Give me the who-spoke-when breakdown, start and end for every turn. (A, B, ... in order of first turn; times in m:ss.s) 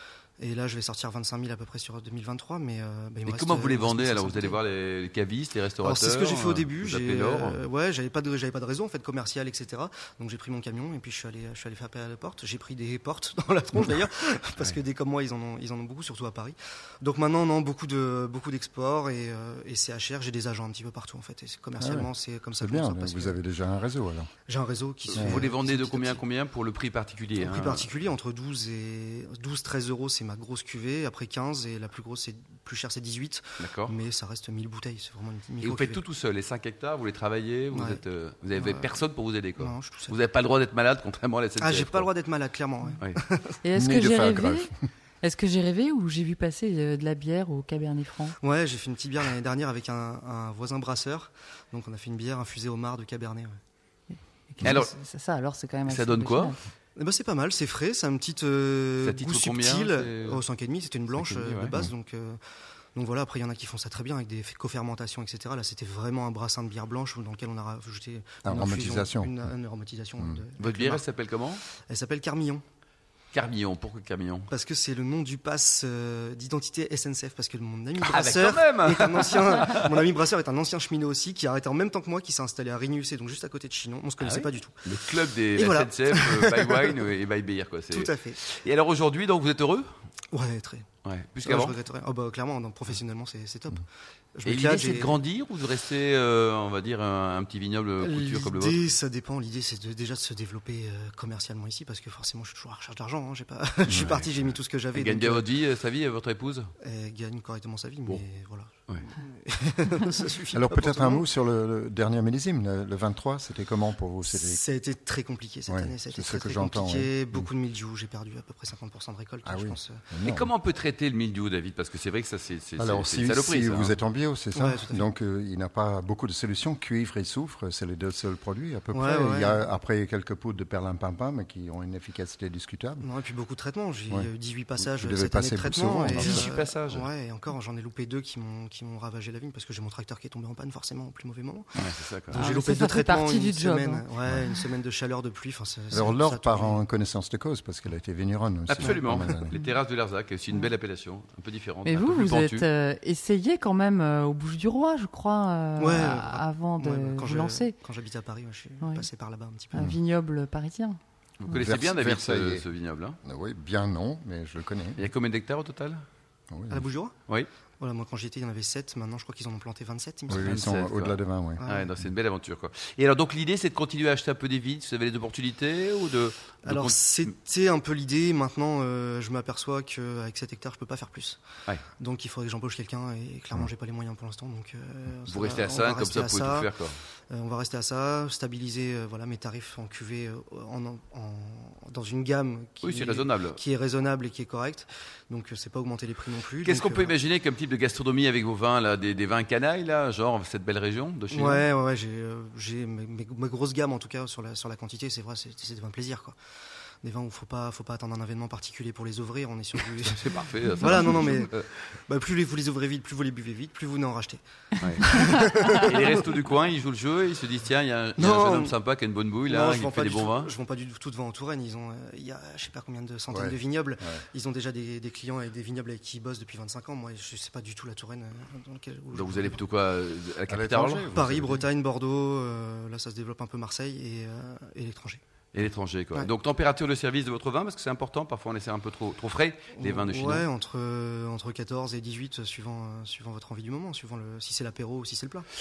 0:00.4-0:04.6 A
0:03.3-0:07.6 B
0:05.8-0:23.4 A
0:21.8-0:22.1 C
0:22.6-0:24.3 C
0:24.5-0:26.2 A
0:25.1-0:27.9 B
0:25.1-0:25.4 C
0:27.4-0:36.0 A
0:33.6-0:33.9 B
0:35.6-0:42.1 B
0:37.7-0:38.0 A
0:38.6-0:38.9 A
0:39.6-0:40.2 A
0:41.6-0:43.6 A
0:43.6-0:44.7 D
0:43.8-0:44.7 C
0:45.2-0:48.4 D
0:48.4-0:53.6 A
0:54.5-0:56.6 D
0:54.6-0:54.9 B
0:55.9-0:56.6 B
0:57.0-1:02.4 A
0:59.0-1:00.4 B
1:01.2-1:01.8 B
1:02.9-1:11.0 A
1:08.4-1:09.3 C
1:10.6-1:11.6 B
1:11.9-1:12.6 A
1:13.3-1:14.5 B
1:14.5-1:24.8 A
1:18.0-1:19.9 B
1:24.2-1:29.9 B
1:25.5-1:26.9 A
1:27.9-1:28.4 A
1:30.3-1:30.9 A
1:31.0-1:31.8 B
1:31.4-1:33.8 A
1:34.3-1:35.2 A
1:34.4-1:38.8 B
1:38.0-1:45.5 A
1:44.9-1:46.7 B
1:46.8-1:51.2 A
1:50.5-1:54.6 C
1:54.3-2:00.0 A
1:55.7-1:57.5 C
1:59.4-2:00.5 C
2:00.2-2:04.0 B
2:02.8-2:13.0 C
2:04.5-2:05.1 A
2:08.9-2:09.6 A
2:13.0-2:26.8 A
2:14.8-2:16.5 C
2:16.1-2:17.1 B
2:21.8-2:22.4 B
2:22.3-2:24.6 D
2:25.9-2:29.5 C
2:28.7-2:32.7 B
2:31.8-2:37.7 D
2:35.8-2:39.9 A
2:39.7-2:41.0 D
2:41.4-2:43.2 B
2:41.5-2:42.6 C
2:43.2-2:45.1 C
2:45.0-2:46.0 B
2:46.5-2:46.8 C
2:46.7-2:47.1 A
2:47.8-2:50.5 A
2:50.3-2:51.6 C
2:50.4-2:57.0 B
2:51.6-2:51.9 A
2:56.7-3:01.4 A
3:02.0-3:06.7 A
3:05.3-3:07.0 B
3:07.3-3:17.2 A
3:12.8-3:13.6 B
3:16.6-3:21.6 B
3:21.3-3:26.4 A
3:27.0-3:30.2 A
3:29.9-3:31.7 B
3:30.8-3:34.4 A
3:34.8-3:40.5 B
3:35.0-3:36.2 A
3:38.2-3:38.7 A
3:39.5-3:49.6 A
3:43.3-3:44.2 C
3:49.1-3:51.3 B
3:50.5-3:51.6 C
3:51.2-3:55.2 A
3:55.5-4:00.5 B
3:59.8-4:05.4 A